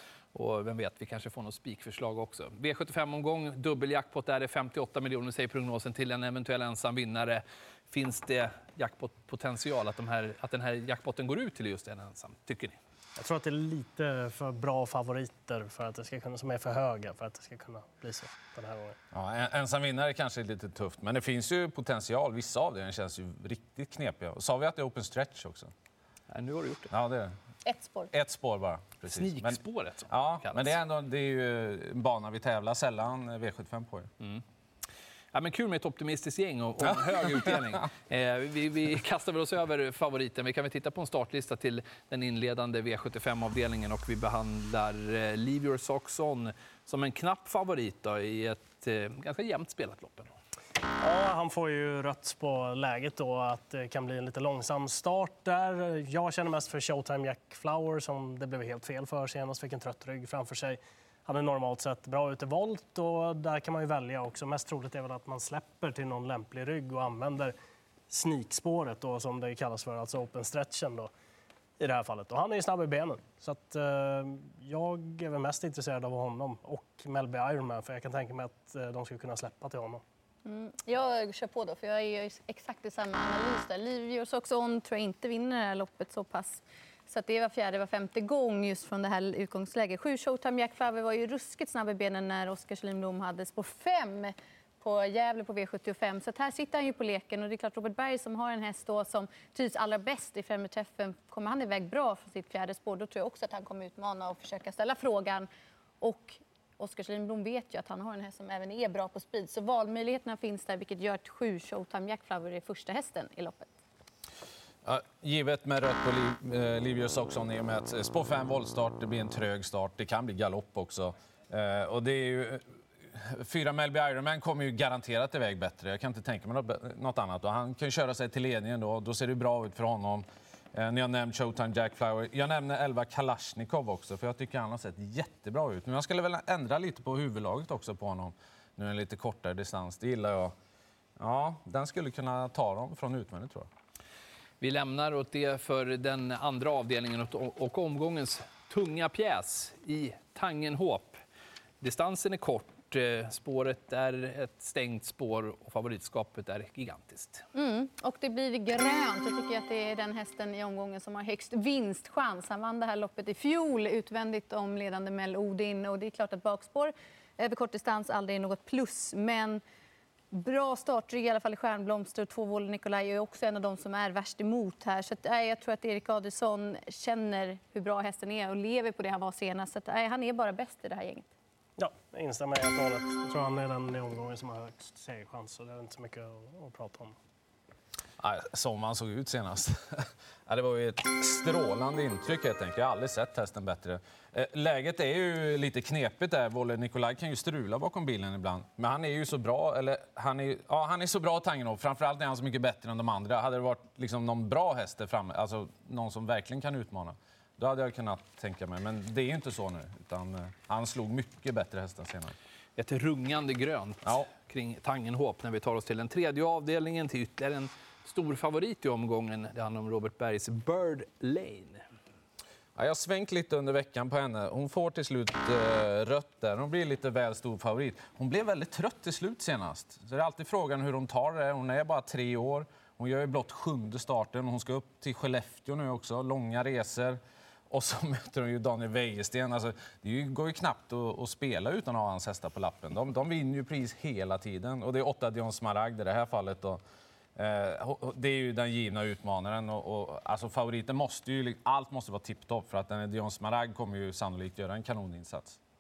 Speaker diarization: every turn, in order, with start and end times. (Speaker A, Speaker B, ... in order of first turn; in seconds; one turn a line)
Speaker A: 0.3-12.8
Speaker B: 13.2-19.0
Speaker C: 19.1-25.7
Speaker A: 26.3-26.9
Speaker C: 26.9-27.3
Speaker D: 27.6-28.1
Speaker C: 28.1-34.1
Speaker A: 29.0-30.8
Speaker A: 35.3-50.3
Speaker C: 37.3-37.6
Speaker B: 51.0-67.5
Speaker B: 68.1-71.1
Speaker B: 71.8-80.0
Speaker D: 80.5-105.5
Speaker D: 106.0-113.7
Speaker C: 114.8-140.5
Speaker C: 141.2-143.7
Speaker A: 144.6-151.2
Speaker A: 151.8-157.4
Speaker D: 157.5-169.6
Speaker D: 170.3-181.3
Speaker B: 181.8-187.2
Speaker C: 188.2-212.3
Speaker A: 212.8-221.8
Speaker C: 214.0-214.3
Speaker C: 222.8-237.2
Speaker C: 237.7-246.8
Speaker C: 247.4-255.6